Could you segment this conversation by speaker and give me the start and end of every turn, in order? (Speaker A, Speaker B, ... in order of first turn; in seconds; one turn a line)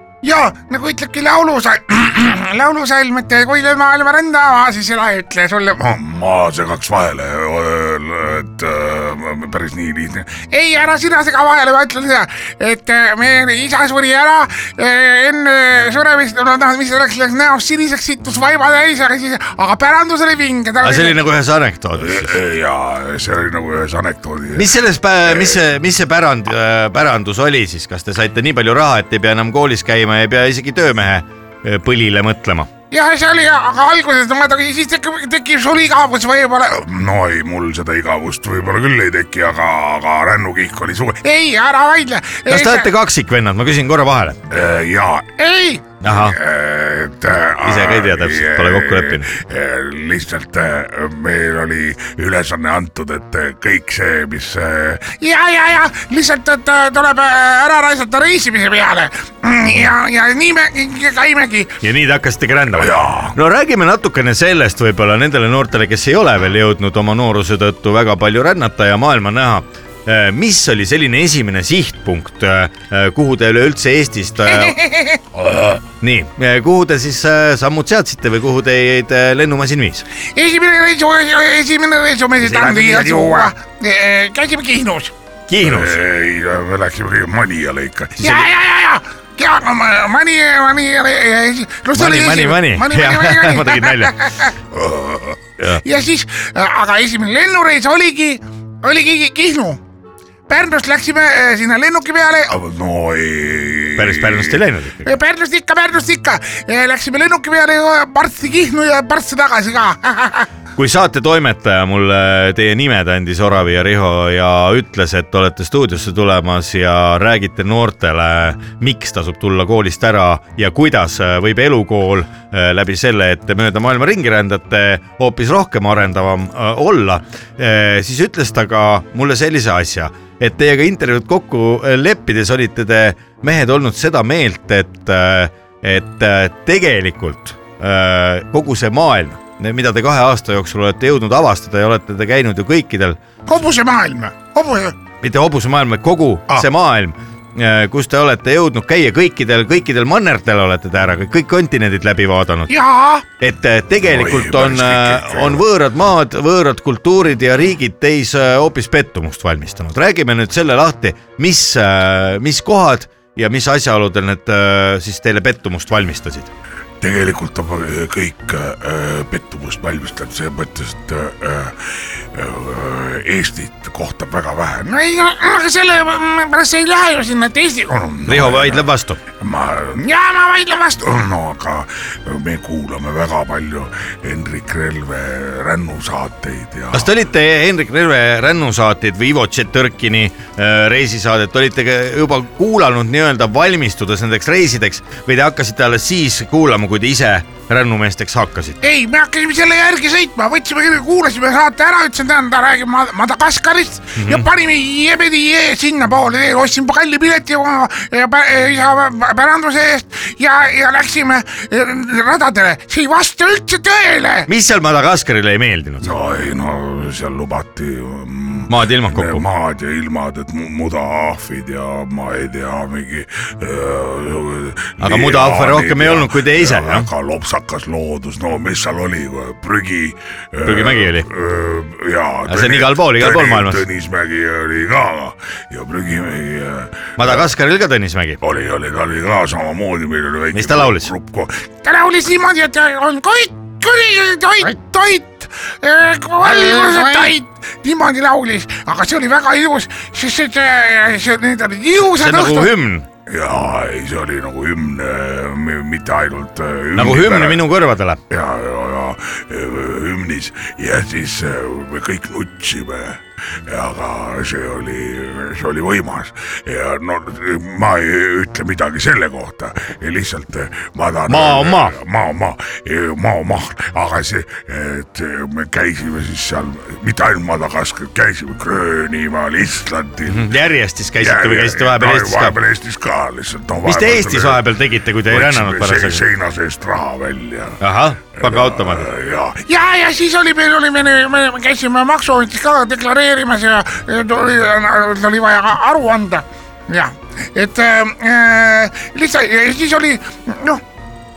Speaker A: 0.2-5.8
Speaker B: 5.8-10.4
Speaker A: 10.4-21.2
Speaker C: 20.8-22.4
Speaker B: 22.0-24.7
Speaker C: 24.6-32.7
Speaker B: 25.3-25.6
Speaker A: 32.9-36.8
Speaker B: 36.8-41.2
Speaker A: 41.2-42.9
Speaker C: 42.5-44.4
Speaker B: 44.5-45.3
Speaker A: 45.4-45.9
Speaker C: 46.0-46.4
Speaker B: 46.1-55.1
Speaker C: 47.6-49.3
Speaker A: 55.1-61.8
Speaker C: 61.8-74.8
Speaker B: 62.7-63.4
Speaker A: 74.5-75.2
Speaker B: 75.4-75.8
Speaker C: 76.0-80.1
Speaker A: 80.3-85.1
Speaker C: 82.4-83.5
Speaker C: 85.5-86.0
Speaker B: 85.6-88.2
Speaker C: 88.2-88.5
Speaker A: 88.2-94.5
Speaker C: 91.9-94.2
Speaker B: 94.7-95.4
Speaker A: 95.8-99.8
Speaker A: 100.5-102.5
Speaker B: 102.5-104.6
Speaker C: 104.0-105.1
Speaker A: 105.0-110.5
Speaker C: 110.8-143.2
Speaker A: 143.5-145.0
Speaker C: 145.2-152.7
Speaker A: 152.7-153.2
Speaker C: 153.4-166.5
Speaker B: 154.0-155.6
Speaker B: 167.0-174.9
Speaker A: 174.8-178.0
Speaker B: 177.9-180.0
Speaker C: 178.3-179.2
Speaker A: 180.0-181.1
Speaker B: 181.0-187.1
Speaker C: 186.9-198.8
Speaker A: 198.8-214.5
Speaker C: 204.2-204.5
Speaker C: 214.5-216.2
Speaker B: 216.0-237.5
Speaker C: 218.7-219.4
Speaker C: 225.0-227.1
Speaker C: 230.7-231.3
Speaker C: 232.5-233.8
Speaker C: 237.2-238.4
Speaker B: 238.4-241.6
Speaker C: 240.5-241.1
Speaker A: 241.8-252.7
Speaker C: 246.5-247.3
Speaker C: 252.0-253.1
Speaker B: 253.3-257.6
Speaker C: 256.9-258.2
Speaker B: 258.3-280.5
Speaker C: 271.3-272.0
Speaker C: 280.3-282.6
Speaker B: 281.2-284.7
Speaker C: 283.8-286.2
Speaker B: 285.3-287.8
Speaker C: 287.8-289.1
Speaker B: 288.3-289.6
Speaker A: 289.7-300.8